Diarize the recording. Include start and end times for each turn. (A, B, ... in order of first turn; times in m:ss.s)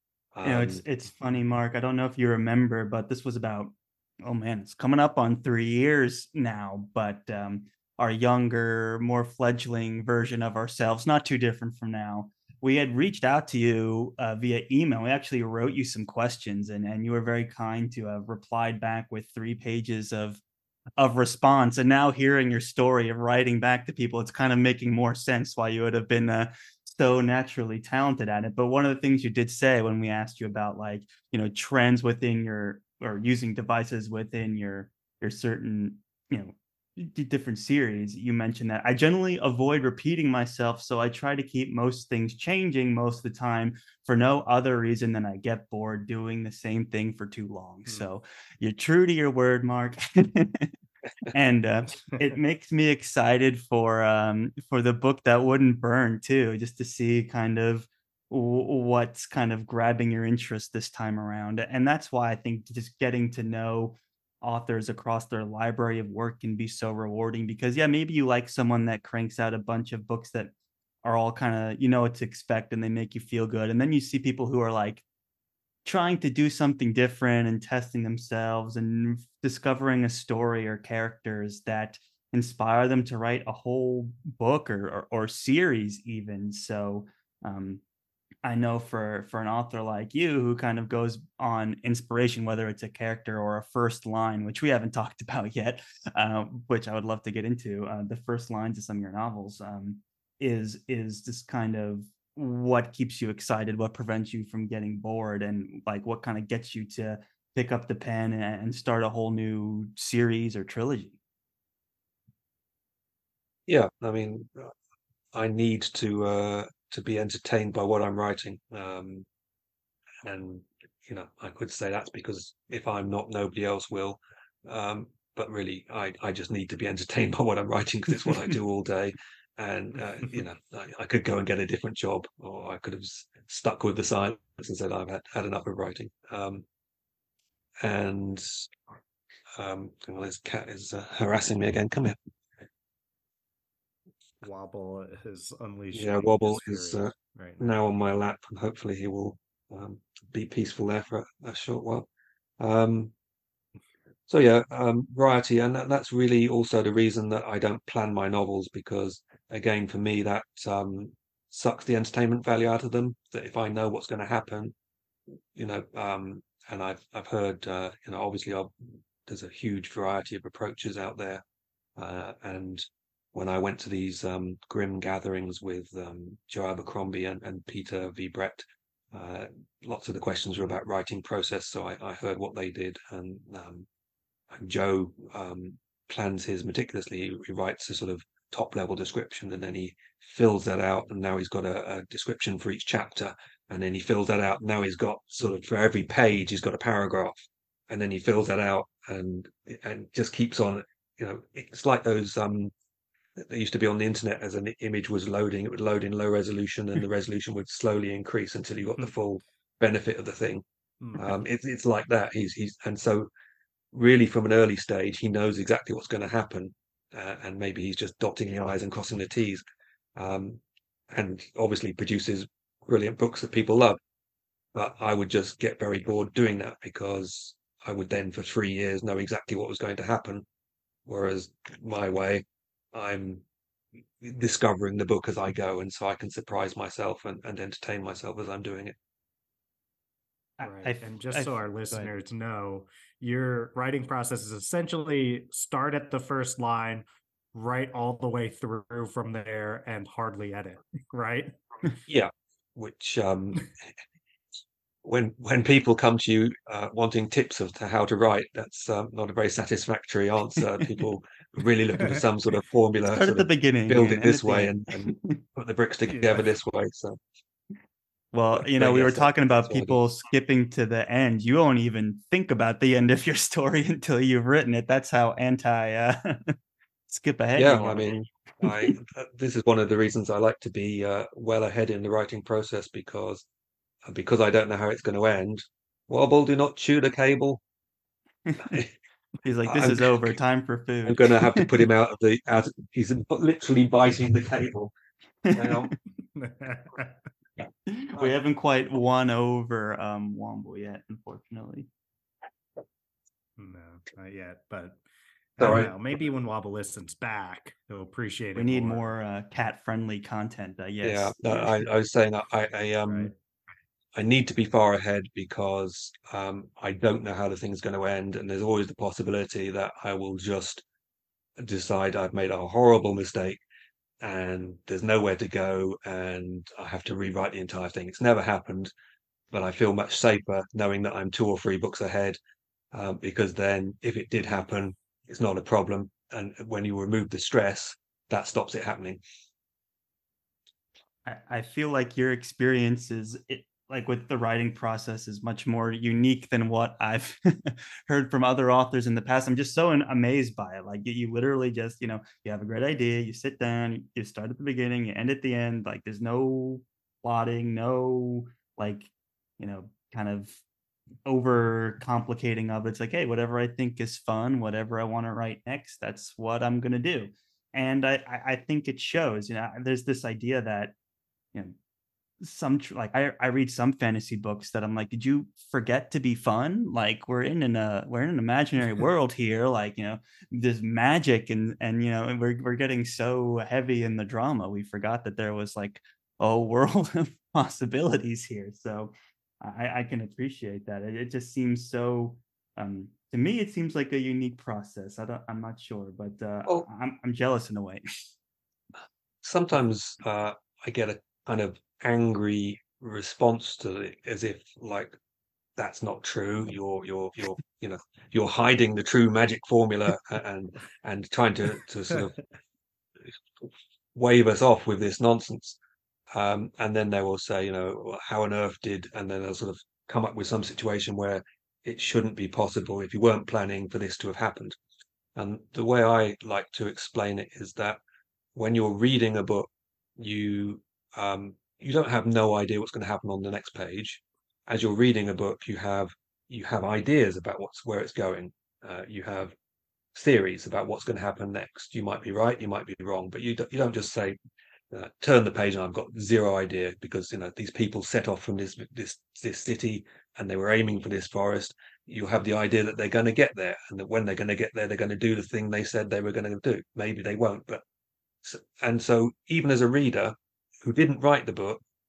0:00.3-0:00.8 A
0:00.4-0:20.4 B
0:21.0-0:50.7 B
0:51.3-1:15.0 B
1:15.8-1:27.8 B
1:28.4-1:51.2 B
1:53.7-1:54.7 A
1:55.3-1:59.2 A
2:00.2-2:16.6 A
2:17.8-2:18.6 A
2:19.6-2:22.2 A
2:24.4-2:27.6 C
2:25.9-2:32.1 A
2:32.6-2:33.1 A
2:34.3-2:44.7 A
2:45.5-2:51.4 A
2:52.0-3:03.9 A
3:04.5-3:22.7 A
3:23.4-3:30.6 A
3:31.2-3:33.3 A
3:33.9-3:39.6 A
3:40.2-3:40.6 A
3:41.1-3:44.0 A
3:44.7-3:50.4 A
3:51.1-3:53.4 A
3:54.2-3:58.9 A
4:00.6-4:02.1 B
4:00.6-4:11.6 C
4:12.1-4:13.7 A
4:15.0-4:27.2 A
4:23.1-4:25.4 B
4:26.1-4:26.4 C
4:28.3-4:36.6 B
4:28.5-4:30.0 A
4:37.1-4:38.1 B
4:37.6-4:43.4 A
4:38.6-4:38.9 B
4:44.0-4:47.6 A
4:48.5-4:48.8 B
4:48.6-4:48.9 A
4:49.4-4:51.8 B
4:49.6-4:50.4 A
4:51.0-4:54.9 A
4:55.4-4:55.9 B
4:55.5-4:55.9 A
4:56.3-4:57.2 C
4:57.9-5:01.9 B
5:03.6-5:05.0 C
5:05.6-5:09.1 C
5:05.6-5:05.9 A
5:08.6-5:11.8 B
5:11.0-5:13.3 A
5:13.1-5:13.3 C
5:14.1-5:20.8 A
5:21.6-5:23.6 A
5:24.2-5:28.9 A
5:29.5-5:32.4 A
5:32.9-5:39.2 A
5:41.2-6:00.6 B
6:01.2-6:10.9 B
6:12.4-6:38.0 B
6:39.4-6:45.1 A
6:45.8-6:52.4 A
6:54.1-6:55.8 A
6:56.3-7:04.8 A
7:05.4-7:08.0 A
7:08.5-7:19.5 A
7:20.1-7:24.4 A
7:24.9-7:37.8 A
7:38.4-7:41.8 A